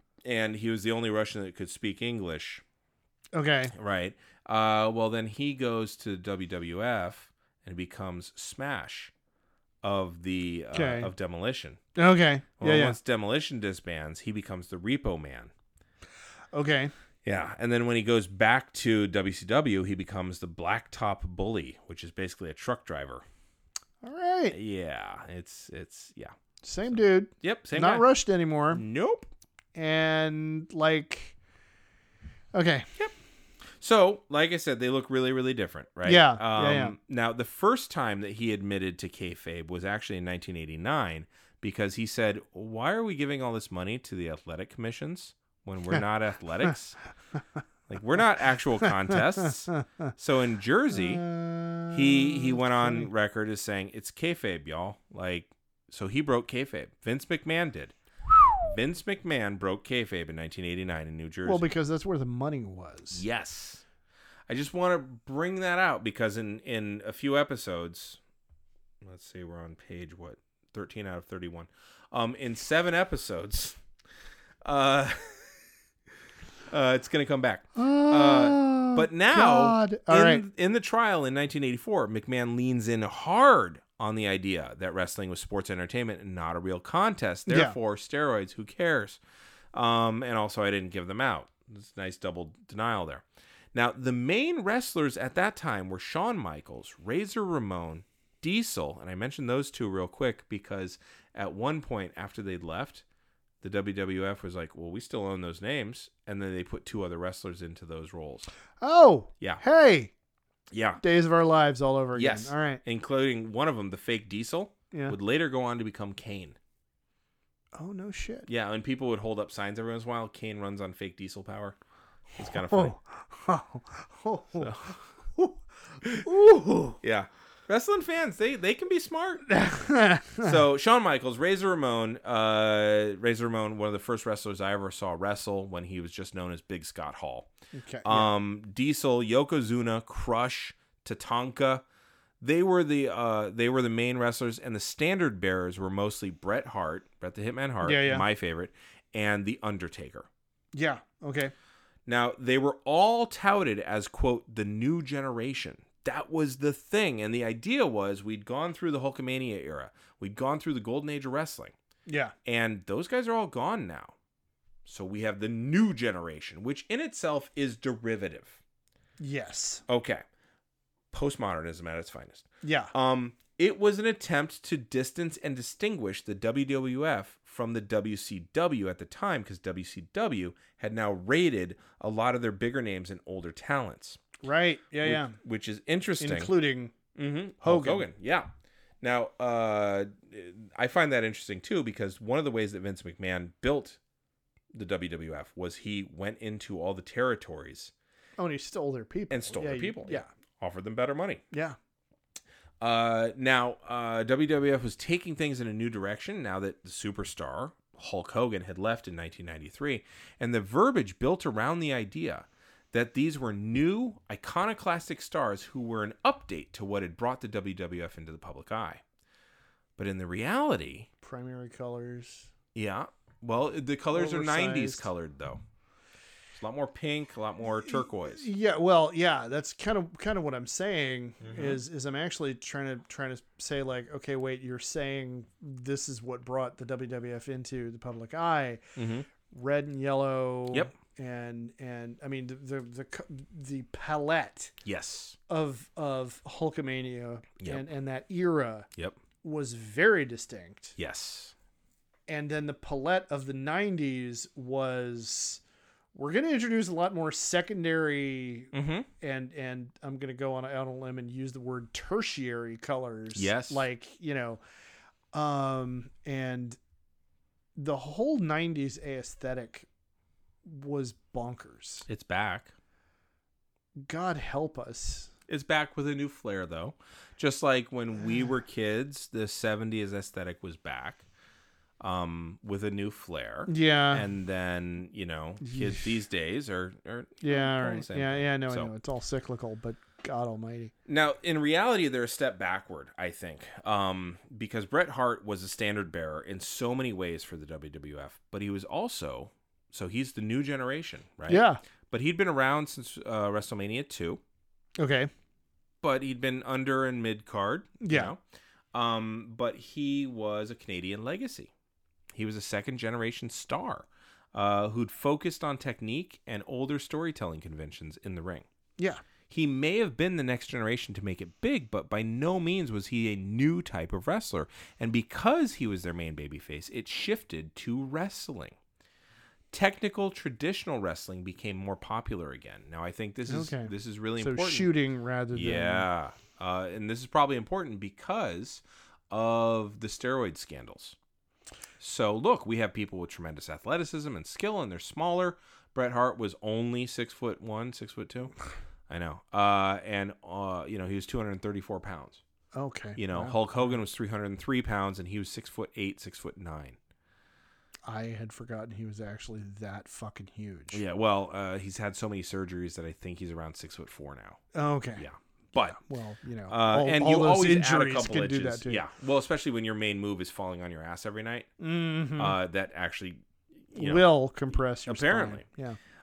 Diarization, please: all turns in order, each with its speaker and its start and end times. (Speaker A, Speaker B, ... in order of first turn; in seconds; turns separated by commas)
Speaker A: 0.2-2.6, Speaker B: 3.3-3.7, Speaker A: 3.7-9.1, Speaker A: 9.8-11.8, Speaker B: 10.7-11.1, Speaker B: 12.0-13.0, Speaker A: 12.6-15.5, Speaker B: 16.5-16.9, Speaker A: 17.2-23.2, Speaker B: 24.0-24.6, Speaker A: 24.5-26.4, Speaker B: 26.6-28.8, Speaker A: 27.4-28.1, Speaker A: 28.7-29.3, Speaker B: 29.8-31.4, Speaker B: 32.5-32.9, Speaker A: 33.8-47.0, Speaker B: 36.0-37.0, Speaker A: 47.9-51.3, Speaker B: 50.9-53.1, Speaker A: 51.9-61.7, Speaker B: 61.5-63.2, Speaker A: 63.1-63.8, Speaker A: 64.5-68.2, Speaker A: 69.0-73.8, Speaker A: 74.6-75.5, Speaker A: 76.7-89.2, Speaker B: 77.8-80.4, Speaker B: 87.5-87.8, Speaker A: 89.7-103.0, Speaker A: 103.6-108.5, Speaker B: 108.8-110.1, Speaker A: 110.7-111.0, Speaker B: 111.0-112.8, Speaker A: 112.1-116.6, Speaker B: 117.8-118.5, Speaker A: 118.5-121.8, Speaker A: 122.4-122.9, Speaker B: 122.5-127.0, Speaker A: 124.6-125.0, Speaker A: 127.0-129.6, Speaker B: 129.5-130.6, Speaker A: 130.4-137.5, Speaker B: 137.7-138.3, Speaker A: 138.0-141.8, Speaker A: 142.4-150.3, Speaker B: 147.8-148.3, Speaker B: 150.7-151.5, Speaker A: 152.1-161.8, Speaker B: 162.1-162.3, Speaker A: 162.5-164.1, Speaker A: 164.8-168.6, Speaker B: 169.2-169.8, Speaker A: 169.9-170.2, Speaker A: 171.1-184.2, Speaker B: 172.6-172.9, Speaker B: 184.4-185.4, Speaker A: 185.0-186.5, Speaker B: 186.2-186.9, Speaker A: 187.2-188.5, Speaker B: 187.6-188.1, Speaker A: 189.0-194.0, Speaker A: 194.7-197.9, Speaker B: 198.4-200.3, Speaker A: 199.3-201.4, Speaker B: 201.5-201.8, Speaker A: 202.8-219.0, Speaker A: 220.0-221.1, Speaker B: 221.2-222.5, Speaker A: 222.8-225.6, Speaker B: 224.1-225.1, Speaker A: 226.5-228.5, Speaker B: 227.8-238.8, Speaker A: 231.4-231.8, Speaker A: 239.0-239.3, Speaker B: 239.5-244.7, Speaker A: 244.8-245.4, Speaker B: 245.5-248.9, Speaker A: 247.6-247.8, Speaker B: 249.4-251.0, Speaker A: 251.0-251.5, Speaker B: 252.3-255.6, Speaker B: 256.1-264.6, Speaker A: 258.7-259.1, Speaker A: 263.4-263.9, Speaker B: 265.3-266.8, Speaker B: 267.8-269.9, Speaker B: 270.7-272.1, Speaker A: 272.1-272.7, Speaker B: 274.1-275.3, Speaker A: 275.5-281.2, Speaker A: 282.0-288.9, Speaker B: 283.7-284.3, Speaker B: 285.6-286.1, Speaker B: 287.4-290.9, Speaker A: 291.1-304.4, Speaker B: 301.5-301.8, Speaker B: 305.0-305.3, Speaker A: 306.0-308.4, Speaker B: 308.0-308.3, Speaker A: 308.9-311.7, Speaker A: 312.3-318.7, Speaker A: 319.5-328.8, Speaker A: 329.7-334.9, Speaker B: 333.5-336.1, Speaker A: 335.5-341.2, Speaker A: 342.0-348.5, Speaker A: 349.1-352.4, Speaker B: 352.7-354.0, Speaker A: 353.2-357.0, Speaker B: 358.1-361.0, Speaker A: 360.9-364.6, Speaker B: 364.7-365.3, Speaker A: 365.2-366.0, Speaker B: 365.9-369.0, Speaker A: 366.7-371.7, Speaker B: 371.8-372.6, Speaker A: 372.4-374.3, Speaker B: 373.9-376.0, Speaker A: 375.1-375.6